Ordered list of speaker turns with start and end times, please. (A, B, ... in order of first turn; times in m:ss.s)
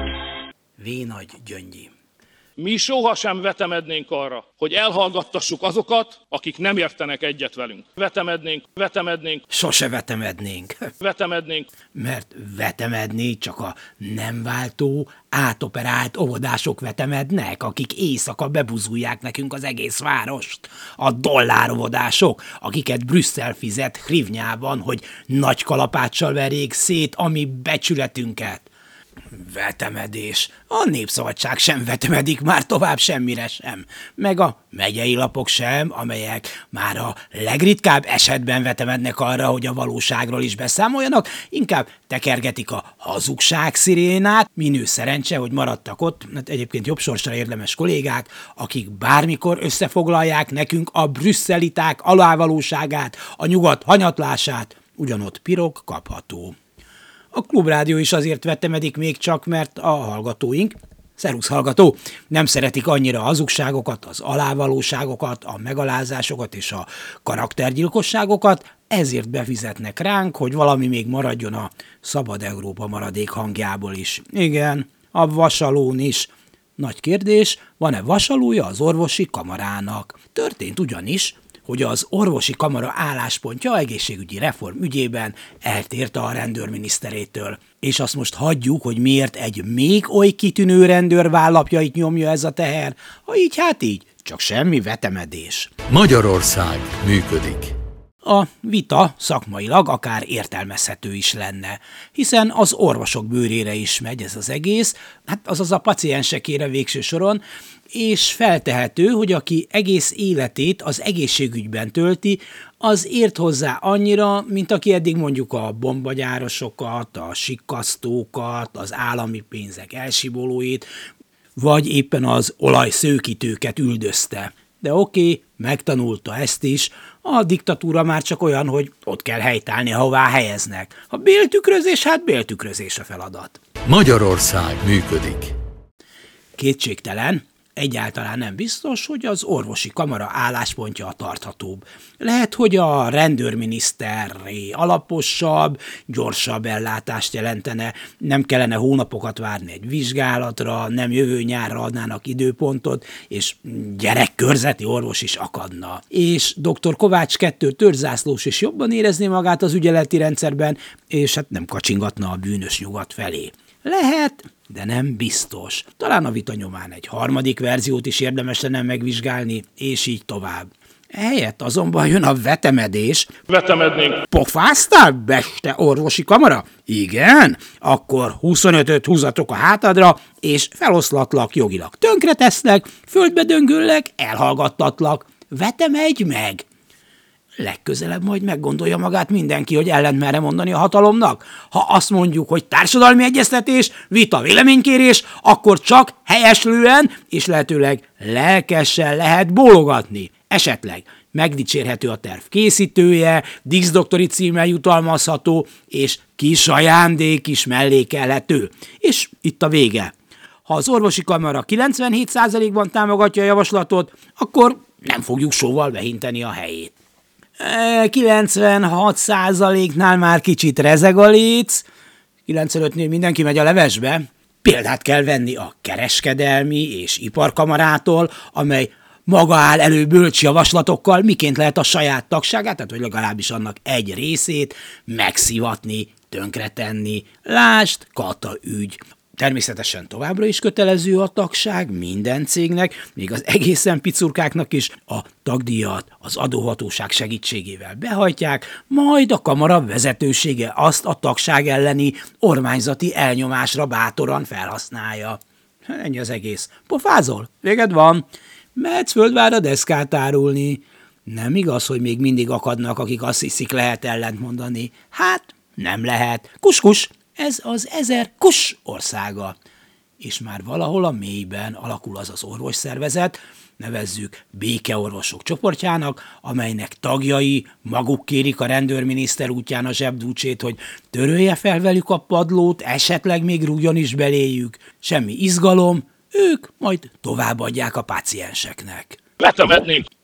0:00.8-0:01.9 A
0:02.6-0:09.4 B
0:09.5-0:10.8 A
0:11.0-0:11.7 B
0:11.9-0:28.7 A
0:29.3-0:56.6 A
0:57.3-1:35.8 A
1:35.9-1:37.7 C
1:38.2-2:00.8 A
2:01.6-2:13.6 A
2:13.8-2:15.5 C
2:16.6-2:53.3 A
2:53.5-2:54.2 B
2:54.3-3:06.6 A
3:07.6-3:30.1 A
3:30.6-3:37.0 A
3:37.6-3:41.8 A
3:42.4-4:18.2 A
4:18.8-4:29.5 A
4:30.2-4:49.2 A
4:49.4-4:50.0 B